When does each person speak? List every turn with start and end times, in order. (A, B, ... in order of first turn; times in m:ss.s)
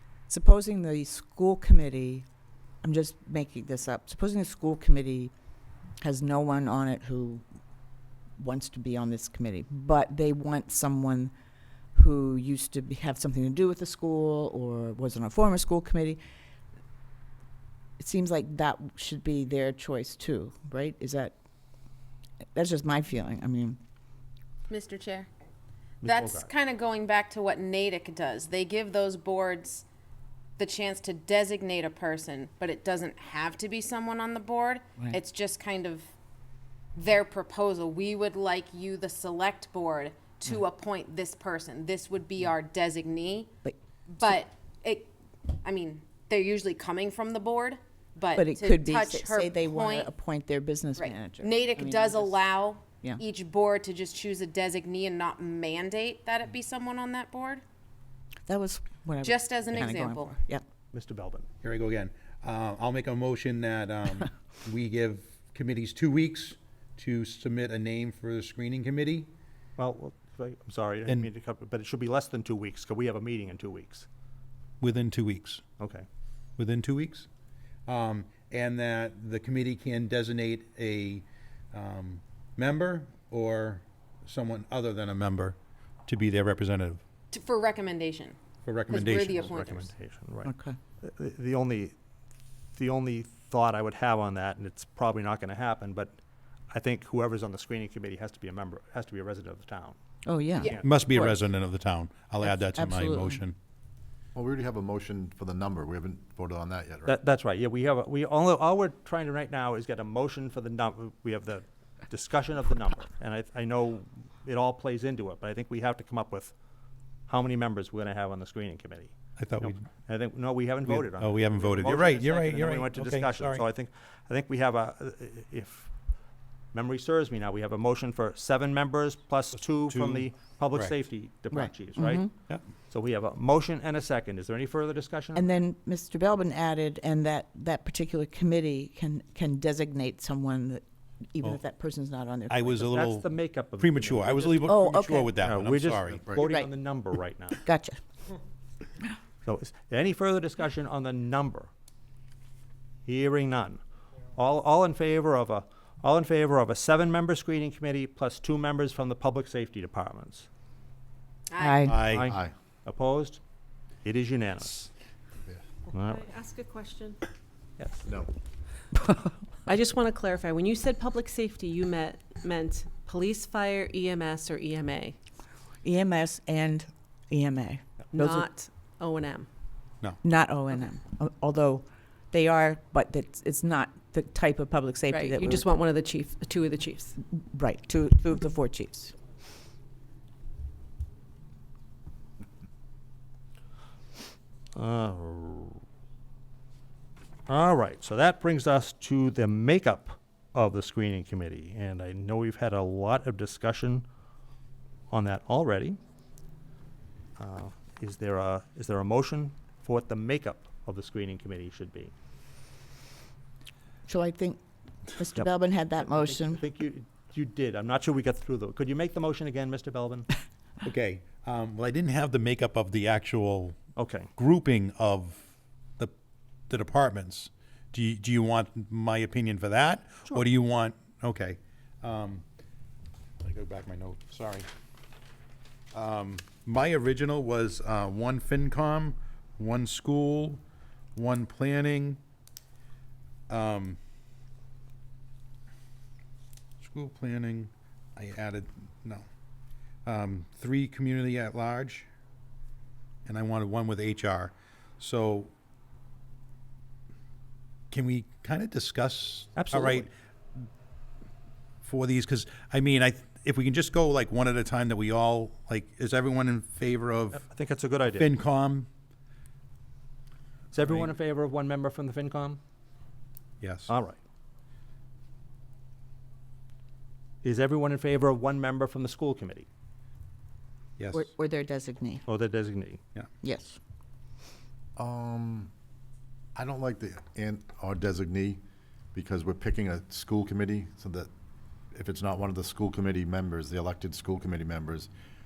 0:00.3-0:02.2 A
0:02.8-0:05.3 A
0:06.0-0:07.4 A
0:08.4-0:11.3 A
0:11.9-0:16.2 A
0:18.0-0:21.3 A
0:22.5-0:23.8 A
0:24.7-0:25.3 B
0:26.0-0:26.5 C
0:26.0-0:29.8 B
0:30.6-0:36.1 B
0:37.0-0:43.5 B
0:43.6-0:44.3 A
0:44.1-0:50.1 B
0:48.3-0:52.4 A
0:51.0-0:57.6 B
0:58.5-1:00.6 A
0:59.2-1:00.3 B
1:00.9-1:01.5 C
1:01.6-1:09.3 D
1:09.8-1:14.1 C
1:14.8-1:15.6 D
1:15.8-1:16.0 C
1:16.6-1:17.3 D
1:17.9-1:27.0 D
1:27.3-1:28.4 B
1:28.6-1:29.5 D
1:28.9-1:29.9 B
1:28.9-1:31.9 C
1:30.4-1:30.8 A
1:32.7-1:36.2 C
1:36.7-1:40.0 C
1:40.2-1:41.3 A
1:40.8-1:43.6 D
1:42.4-1:43.4 A
1:44.3-1:47.2 E
1:47.0-1:56.5 C
1:57.3-2:05.9 C
1:59.4-1:59.9 D
2:00.8-2:03.6 D
2:06.7-2:12.3 C
2:09.8-2:10.9 D
2:11.5-2:12.3 A
2:12.9-2:15.4 C
2:15.3-2:22.8 A
2:22.5-2:23.3 D
2:22.8-2:24.8 C
2:23.8-2:26.2 D
2:24.6-2:25.3 A
2:25.4-2:27.6 C
2:26.4-2:26.7 A
2:27.6-2:28.0 A
2:29.4-2:31.7 C
2:33.0-2:33.8 C
2:34.3-2:40.5 C
2:41.5-2:41.9 B
2:41.6-2:42.0 A
2:41.8-2:42.3 D
2:42.1-2:43.4 C
2:42.2-2:42.5 E
2:44.0-2:44.9 C
2:45.9-2:46.3 C
2:46.2-2:47.2 F
2:47.8-2:48.0 C
2:48.0-2:48.3 E
2:49.6-2:55.2 F
2:55.8-2:58.4 A
2:58.1-2:59.5 F
3:00.2-3:05.6 A
3:05.1-3:07.2 F
3:07.3-3:09.1 A
3:14.7-3:15.8 C
3:17.5-3:24.0 C
3:25.1-3:26.0 C
3:27.4-3:32.1 C
3:34.1-3:34.6 A
3:35.1-3:36.6 A
3:36.0-3:40.3 C
3:40.8-3:43.8 D
3:44.0-3:44.3 C
3:44.4-3:45.4 D
3:46.7-3:52.4 D
3:53.4-3:54.7 D
3:55.9-4:00.6 D
4:01.1-4:02.2 D
4:03.5-4:04.0 D
4:06.8-4:09.3 D
4:10.0-4:12.1 D
4:13.2-4:15.5 D
4:17.9-4:20.7 D
4:19.5-4:20.1 C
4:21.8-4:27.4 D
4:27.3-4:28.3 C
4:28.2-4:28.9 D
4:30.7-4:32.6 C
4:30.8-4:31.1 D
4:33.6-4:33.9 D
4:33.9-4:34.2 C
4:37.4-4:39.7 C
4:41.0-4:41.3 D
4:41.1-4:42.2 A
4:42.2-4:43.0 C
4:43.4-4:43.8 A
4:45.0-4:45.7 E
4:46.6-4:48.6 E
4:49.1-4:51.3 E
4:51.9-4:55.1 E